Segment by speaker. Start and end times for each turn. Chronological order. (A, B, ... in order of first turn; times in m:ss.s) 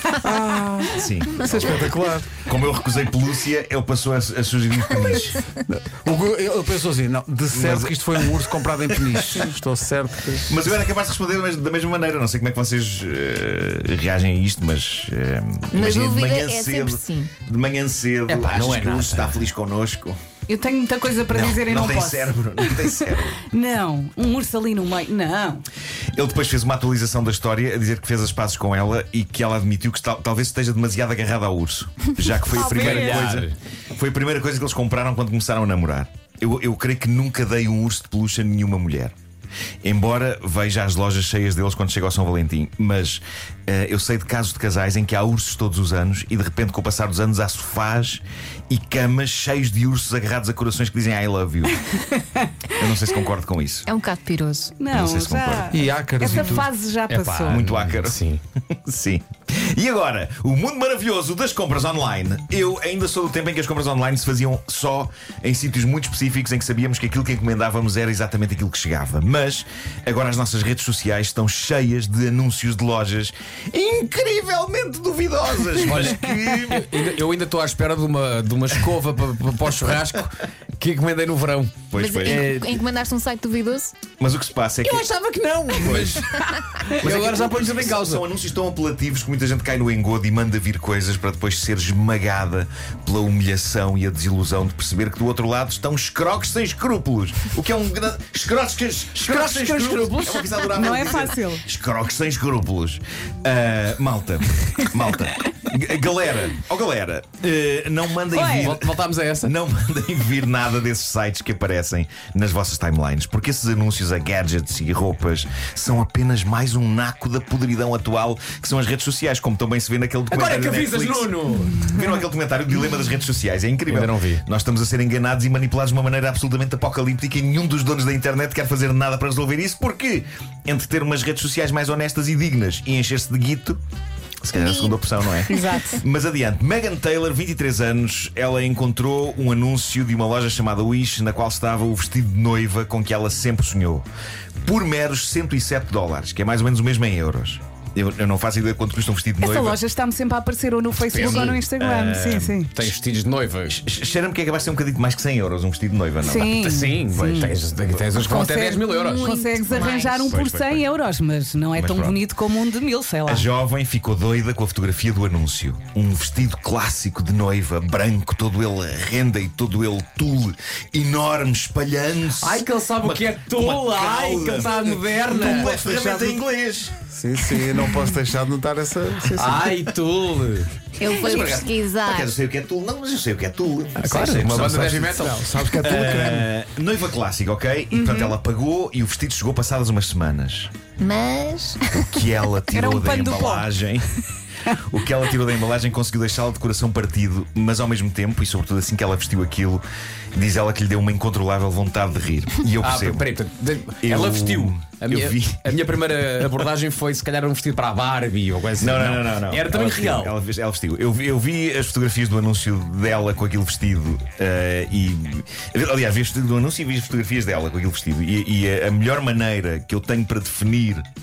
0:00.3-0:02.3 A
0:00.9-0:05.4 B
0:05.7-0:10.5 A
0:07.5-0:08.3 B
0:08.9-0:09.5 B
0:10.4-0:20.2 B
0:15.7-0:17.3 C
0:18.3-0:19.2 D
0:20.5-0:25.6 E
0:21.3-0:23.4 B
0:26.1-0:39.2 B
0:32.5-0:33.3 E
0:32.8-0:33.5 D
0:39.8-0:51.8 B
0:52.8-0:53.9 B
0:53.9-0:54.8 C
0:54.8-0:57.7 E
0:54.9-0:55.7 B
0:55.7-0:56.7 A
0:57.1-0:58.4 D
0:57.4-1:16.9 B
1:15.8-1:22.8 D
1:21.9-1:22.4 B
1:21.9-1:24.0 C
1:24.2-1:25.1 B
1:24.8-1:28.2 D
1:25.7-1:26.4 B
1:27.0-2:13.8 B
1:39.3-1:40.3 D
1:39.8-1:41.6 E
1:48.3-1:48.8 E
1:48.6-1:49.5 D
2:00.3-2:01.8 D
2:03.9-2:04.4 D
2:14.4-2:24.1 B
2:14.6-2:15.0 C
2:15.5-2:16.0 E
2:24.6-2:29.8 B
2:29.4-2:32.7 E
2:31.1-2:32.6 B
2:31.1-2:31.6 D
2:32.7-2:33.8 D
2:33.7-2:37.5 B
2:36.2-2:43.5 E
2:36.6-2:40.8 D
2:38.9-2:40.4 C
2:41.8-2:42.2 D
2:43.3-2:57.0 B
2:52.4-2:55.7 D
2:55.4-2:56.4 A
2:57.1-2:59.7 A
2:59.4-3:00.7 D
3:01.0-3:02.3 C
3:01.0-3:10.7 B
3:04.0-3:05.4 D
3:05.2-3:06.5 A
3:07.9-3:08.4 E
3:11.0-3:12.0 C
3:11.9-3:14.1 B
3:12.7-3:13.7 E
3:14.8-3:23.3 B
3:22.8-3:30.3 D
3:24.0-3:25.8 B
3:28.8-3:41.1 B